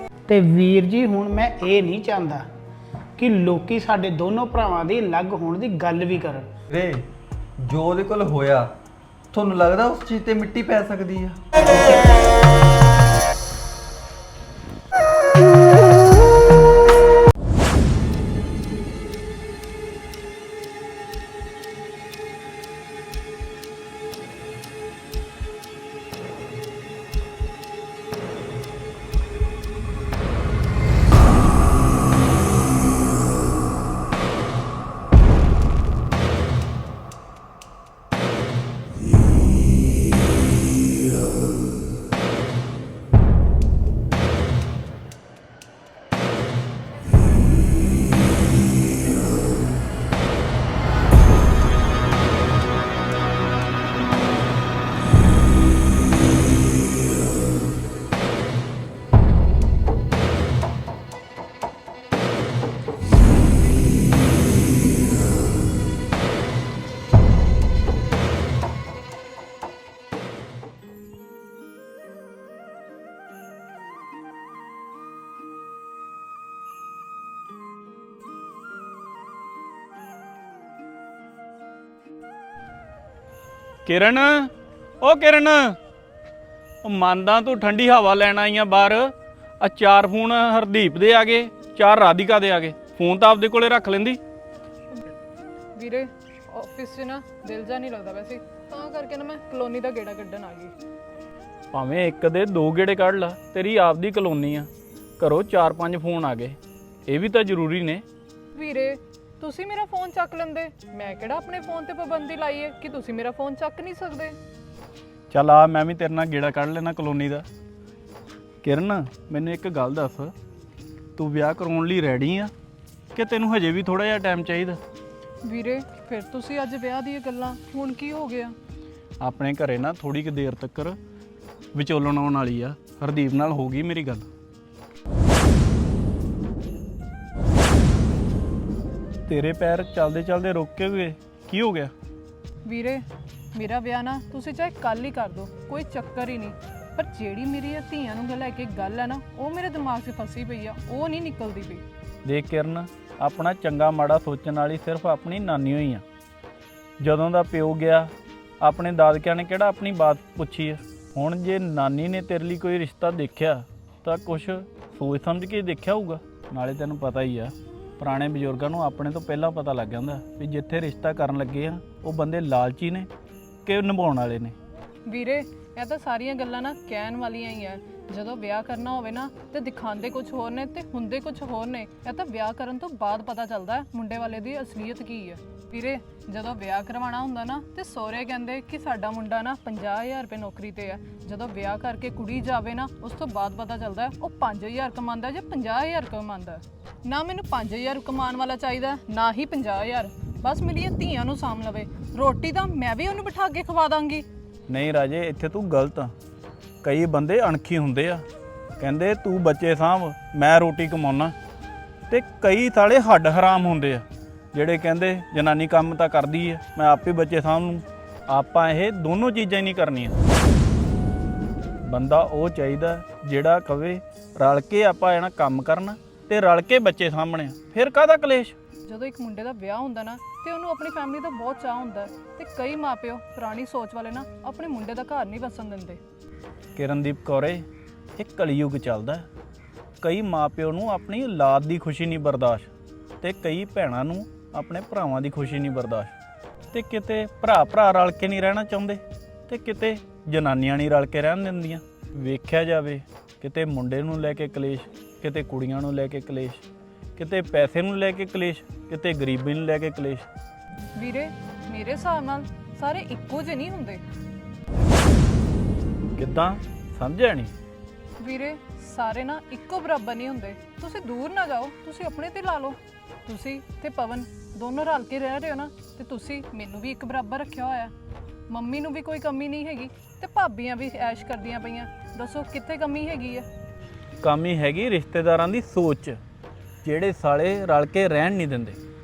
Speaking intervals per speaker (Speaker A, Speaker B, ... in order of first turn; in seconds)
Speaker A: 0.3-2.5, 3.2-6.5
Speaker B: 6.7-7.0, 7.6-8.7, 9.3-12.0
Speaker C: 83.8-85.8, 86.8-94.2, 101.7-108.0, 115.3-117.4, 118.6-120.3, 121.2-122.5, 123.1-124.8, 129.2-131.0, 131.7-134.3, 139.3-141.9, 152.2-156.0, 157.0-173.1, 173.7-174.5, 204.7-206.1, 206.8-208.2, 208.8-211.3, 212.1-220.2, 221.8-228.5, 236.8-237.6, 238.2-239.2, 240.0-242.7, 243.2-246.1, 246.7-256.6, 257.2-260.2, 266.1-267.5, 284.2-286.2, 286.8-288.8
Speaker D: 95.8-100.7, 108.5-114.3, 125.5-128.5, 142.7-143.0, 143.6-151.8, 175.1-204.2, 228.9-236.0, 261.0-264.0, 268.2-277.9, 278.5-283.4